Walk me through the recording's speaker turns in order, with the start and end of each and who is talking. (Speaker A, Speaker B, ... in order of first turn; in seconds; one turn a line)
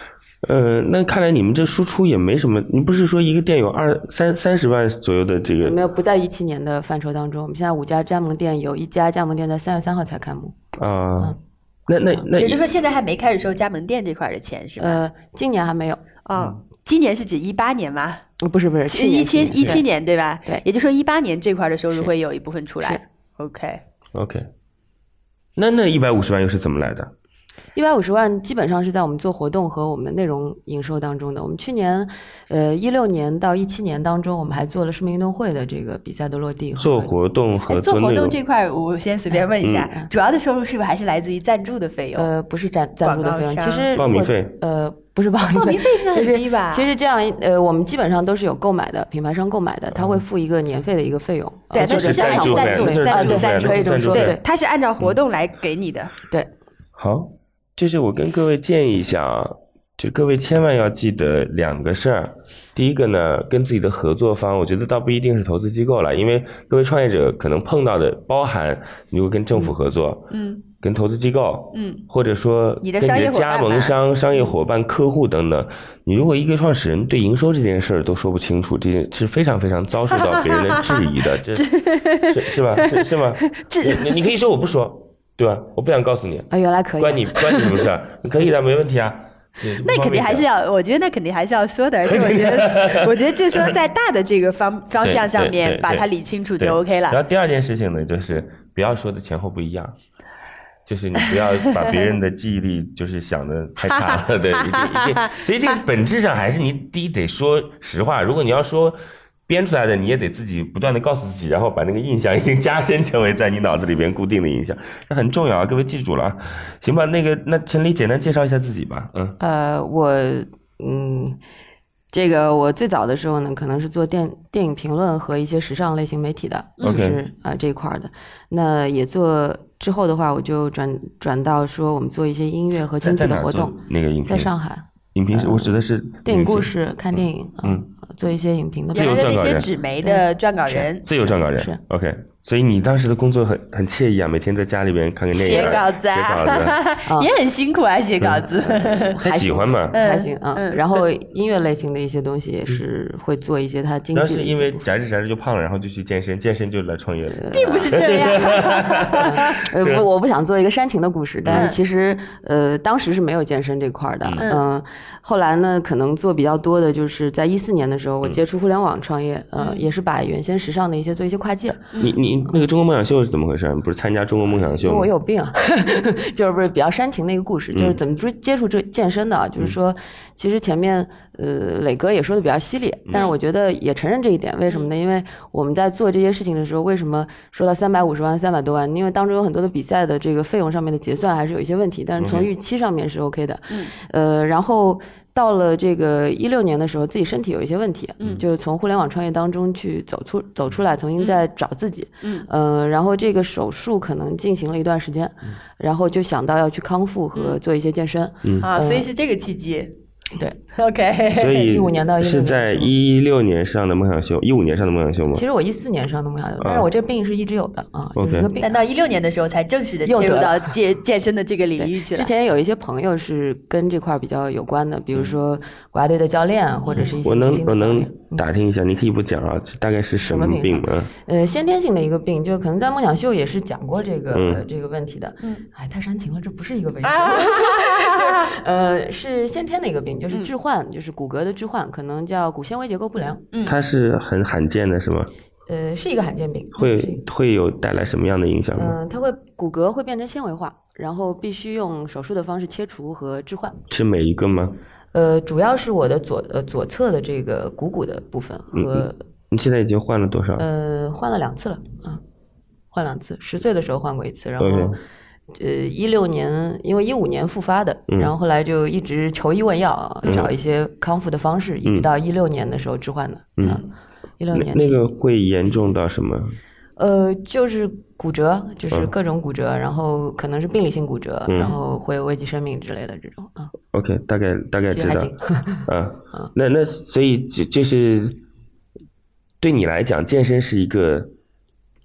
Speaker A: 0.4-5.8
Speaker B: 5.6-10.5
Speaker A: 10.7-11.3
Speaker A: 11.9-12.7
Speaker C: 12.4-15.0
Speaker B: 14.8-16.0
Speaker C: 16.2-18.2
Speaker B: 18.4-19.8
Speaker C: 18.9-23.8
Speaker A: 24.1-24.5
Speaker A: 25.6-27.1
Speaker B: 27.7-37.1
Speaker A: 36.8-38.4
Speaker C: 37.7-42.3
Speaker A: 39.6-39.9
Speaker B: 42.1-54.4
Speaker C: 43.0-43.9
Speaker A: 44.0-44.5
Speaker C: 45.5-46.9
Speaker C: 51.7-56.1
Speaker A: 51.7-54.4
Speaker A: 57.0-81.7
Speaker C: 70.3-70.6
Speaker C: 71.7-72.0
Speaker C: 72.8-74.5
Speaker C: 80.2-80.8
Speaker C: 81.5-84.1
Speaker A: 82.3-90.5
Speaker B: 86.5-87.8
Speaker C: 89.8-97.2
Speaker A: 92.1-93.6
Speaker A: 95.0-96.0
Speaker A: 96.6-99.9
Speaker A: 100.8-109.0
Speaker C: 103.8-105.4
Speaker A: 109.5-119.3
Speaker B: 119.4-121.4
Speaker B: 122.1-139.3
Speaker C: 126.8-127.1
Speaker A: 126.8-127.2
Speaker A: 133.0-134.5
Speaker A: 135.1-137.8
Speaker A: 138.9-139.7
Speaker C: 138.9-141.1
Speaker B: 140.0-140.9
Speaker A: 141.0-146.8
Speaker B: 141.5-141.8
Speaker C: 145.3-149.2
Speaker B: 148.6-154.8
Speaker A: 149.2-150.0
Speaker C: 149.9-150.9
Speaker A: 154.1-160.0
Speaker B: 157.3-158.0
Speaker C: 157.5-159.6
Speaker B: 159.2-171.9
Speaker A: 161.4-161.7
Speaker C: 169.6-169.8
Speaker A: 172.0-175.1
Speaker B: 174.8-209.1
Speaker A: 177.7-178.0
Speaker A: 192.2-192.5
Speaker A: 208.4-208.7
Speaker C: 208.6-209.9
Speaker C: 210.8-211.6
Speaker A: 211.3-215.4
Speaker B: 211.6-212.9
Speaker B: 215.3-218.8
Speaker A: 216.6-216.9
Speaker A: 218.2-218.5
Speaker C: 218.6-222.3
Speaker B: 220.0-220.7
Speaker B: 221.8-228.4
Speaker C: 226.8-227.2
Speaker A: 227.2-231.1
Speaker B: 230.2-243.4
Speaker A: 234.3-234.6
Speaker C: 237.0-238.4
Speaker A: 243.6-245.3
Speaker B: 245.7-247.2
Speaker A: 246.8-248.9
Speaker B: 248.8-253.8
Speaker A: 253.9-254.8
Speaker B: 255.1-259.2
Speaker A: 258.7-260.6
Speaker B: 260.6-262.2
Speaker B: 262.9-265.0
Speaker A: 264.6-265.0
Speaker B: 265.5-273.9
Speaker A: 270.2-270.5
Speaker A: 273.6-273.9
Speaker B: 274.4-275.2
Speaker A: 274.5-276.6
Speaker B: 277.0-283.7
Speaker A: 281.5-281.7
Speaker A: 283.9-288.4
Speaker B: 284.9-286.5
Speaker A: 289.6-291.3